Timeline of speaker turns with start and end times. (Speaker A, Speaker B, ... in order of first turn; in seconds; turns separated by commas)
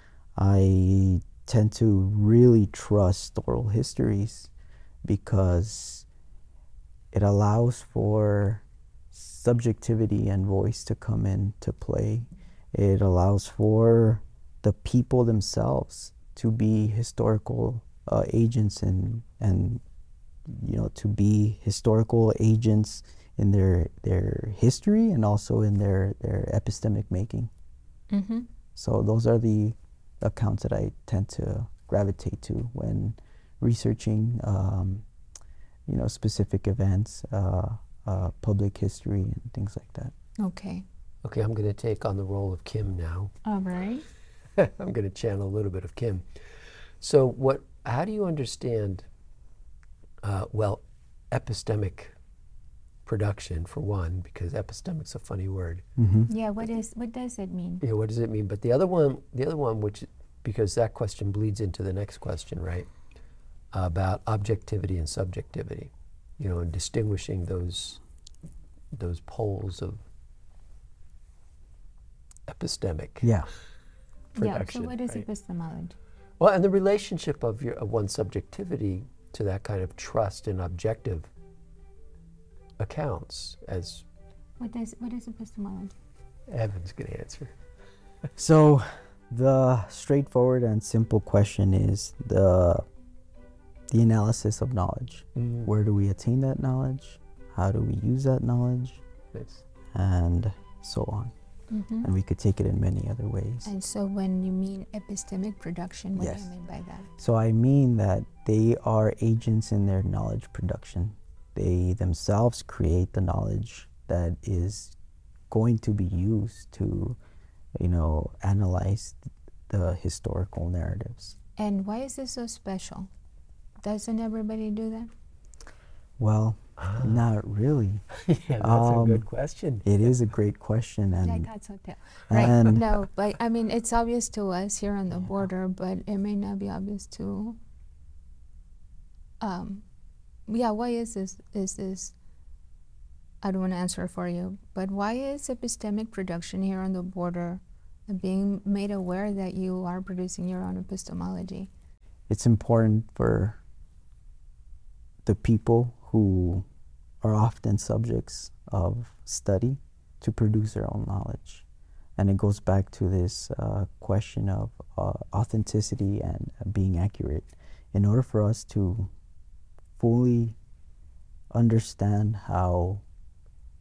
Speaker A: 0.4-4.5, Speaker A: 5.0-6.1, Speaker A: 7.1-19.8, Speaker A: 20.5-27.5, Speaker B: 28.1-28.5, Speaker A: 28.8-35.1, Speaker A: 35.9-40.1, Speaker B: 40.4-40.9, Speaker C: 41.2-43.3, Speaker B: 43.5-44.1, Speaker C: 44.6-46.3, Speaker C: 47.0-49.1, Speaker C: 50.2-52.2, Speaker C: 53.1-55.8, Speaker A: 56.0-56.3, Speaker B: 56.3-57.8, Speaker C: 57.8-62.9, Speaker C: 63.7-68.0, Speaker C: 68.9-70.0, Speaker C: 72.5-73.5, Speaker A: 73.2-73.5, Speaker C: 74.4-75.2, Speaker B: 74.4-76.0, Speaker C: 76.4-81.3, Speaker C: 82.8-84.0, Speaker B: 84.6-85.9, Speaker C: 86.5-87.5, Speaker A: 88.4-92.8, Speaker A: 93.9-99.0, Speaker C: 95.4-95.7, Speaker C: 99.3-99.6, Speaker A: 99.9-101.3, Speaker B: 101.7-102.1, Speaker A: 102.0-103.7, Speaker B: 103.7-107.1, Speaker A: 106.2-106.5, Speaker A: 107.2-115.0, Speaker A: 115.5-117.2, Speaker A: 117.8-121.4, Speaker B: 121.6-123.1, Speaker B: 123.8-125.1, Speaker A: 126.2-128.1, Speaker C: 126.8-127.3, Speaker C: 128.1-130.1, Speaker A: 128.6-129.3, Speaker A: 129.8-131.5, Speaker B: 131.2-137.6, Speaker A: 132.3-132.8, Speaker C: 132.3-132.8, Speaker B: 139.4-139.8, Speaker B: 140.5-142.1, Speaker B: 143.4-151.7, Speaker A: 152.3-153.6, Speaker A: 155.2-156.7, Speaker A: 157.2-161.7, Speaker A: 162.2-169.1, Speaker A: 170.0-170.6, Speaker A: 171.5-173.0